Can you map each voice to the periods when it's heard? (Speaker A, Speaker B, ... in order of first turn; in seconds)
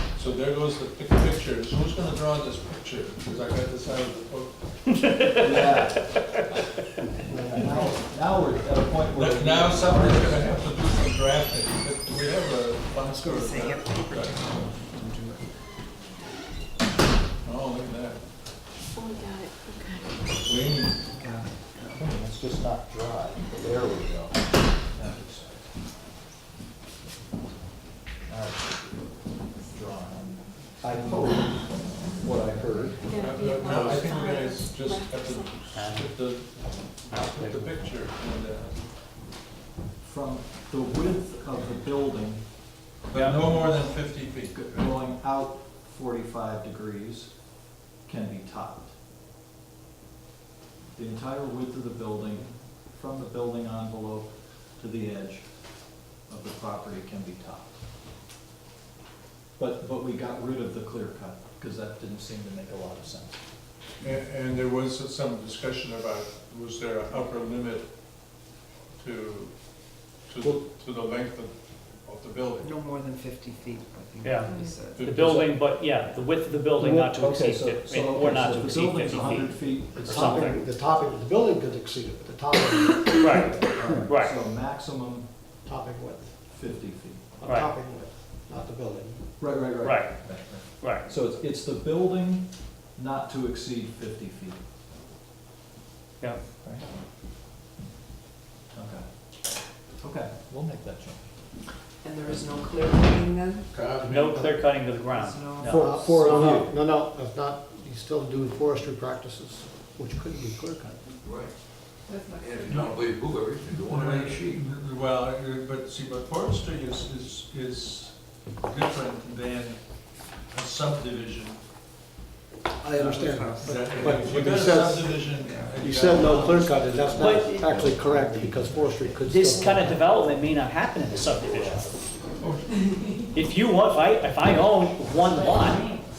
Speaker A: 0.1-4.5, 9.1-14.4, 17.4-18.2, 20.4-21.0, 33.1-38.8, 43.1-44.8, 64.0-67.9, 69.0-69.5, 70.3-71.5, 72.0-72.7, 74.9-75.5, 103.7-104.3, 113.7-119.8, 120.5-121.6, 123.6-127.2, 132.4-132.8
Speaker B: 5.0-5.8, 35.7-36.1, 37.1-37.7, 43.1-43.4, 74.2-80.6, 83.2-84.3, 89.8-91.1, 104.0-106.1, 127.2-127.5, 129.2-131.9, 133.3-135.9
Speaker C: 5.3-6.1, 7.2-10.6, 21.9-25.7, 28.2-33.2, 40.0-42.4, 43.3-43.7, 44.5-47.3, 48.0-48.9, 50.9-55.5, 56.3-57.7, 59.6-63.4, 76.8-80.6, 83.4-85.3, 86.5-87.4, 89.4-94.6, 98.7-99.0, 99.9-101.2, 105.6-106.7
Speaker D: 13.0-15.5, 21.2-21.5, 72.6-75.1, 102.0-103.7, 105.1-105.9, 112.2-113.0, 122.9-124.7, 125.3-127.8
Speaker E: 18.9-20.1, 33.0-35.6
Speaker F: 79.9-83.3, 85.6-86.3, 87.4-89.2, 104.0-104.4, 105.7-111.0, 122.8-125.2, 125.8-130.0
Speaker G: 111.2-111.5, 112.2-114.6